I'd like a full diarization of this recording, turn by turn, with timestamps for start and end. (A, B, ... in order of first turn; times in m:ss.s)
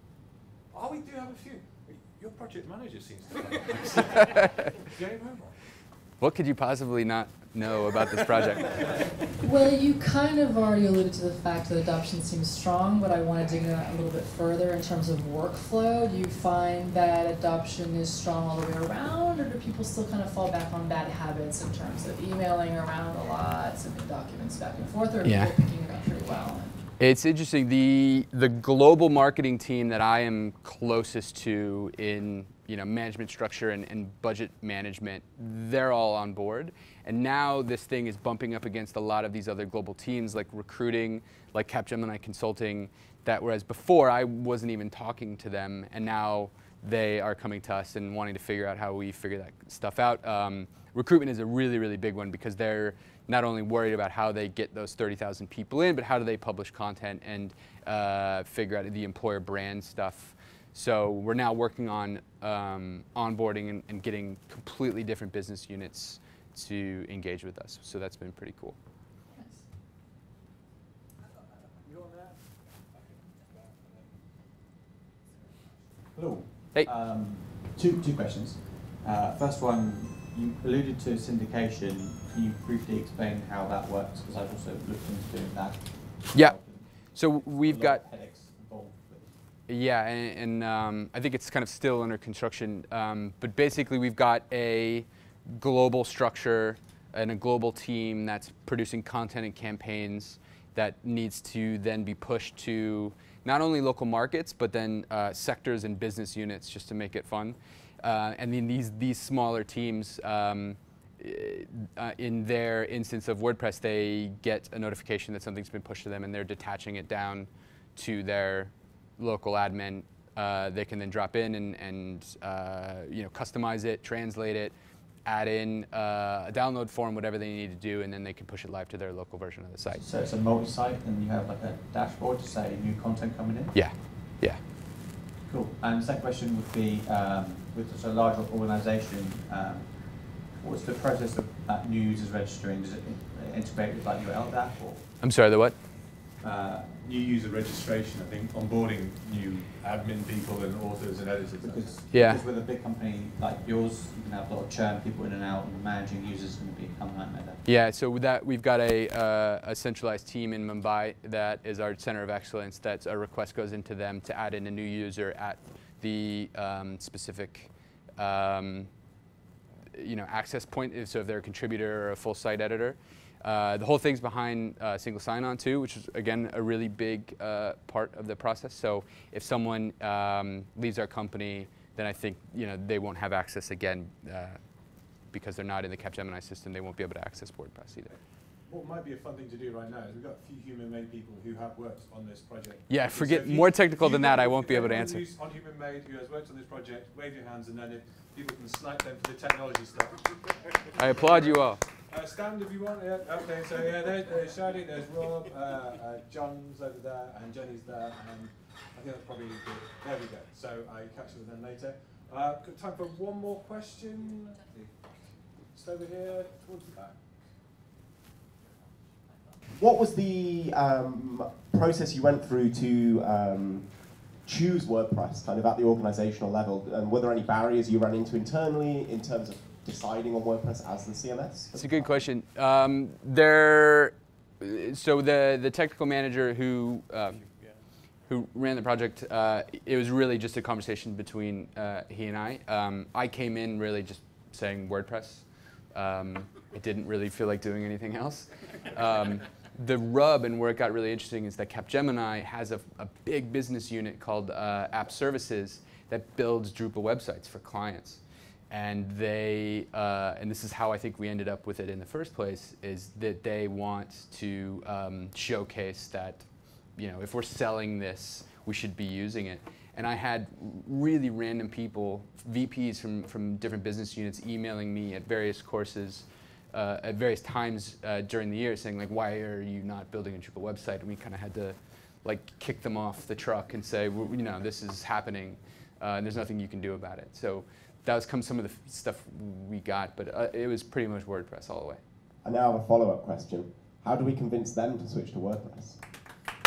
0:00.7-0:05.6 A
0:04.1-0:04.5 B
0:06.2-0:09.3 B
0:09.5-0:26.7 C
0:25.2-0:25.7 B
0:27.0-1:08.8 B
1:11.8-1:14.2 A
1:16.1-1:29.3 D
1:27.1-1:28.0 B
1:29.7-2:10.0 B
2:09.9-2:13.7 D
2:13.7-2:14.6 B
2:15.4-2:25.1 D
2:25.2-2:25.8 B
2:26.4-2:27.0 D
2:27.0-2:32.2 A
2:31.6-2:37.6 D
2:32.1-2:32.4 B
2:37.6-2:48.9 B
2:49.9-3:04.6 B
3:05.3-3:08.1 B
3:08.6-3:34.9 A
3:12.9-3:15.2 B
3:21.0-3:21.8 B
3:35.7-3:37.5 A
3:39.8-3:52.0 E
3:51.7-3:57.4 B
3:58.2-4:52.0 B
4:52.4-4:56.0 E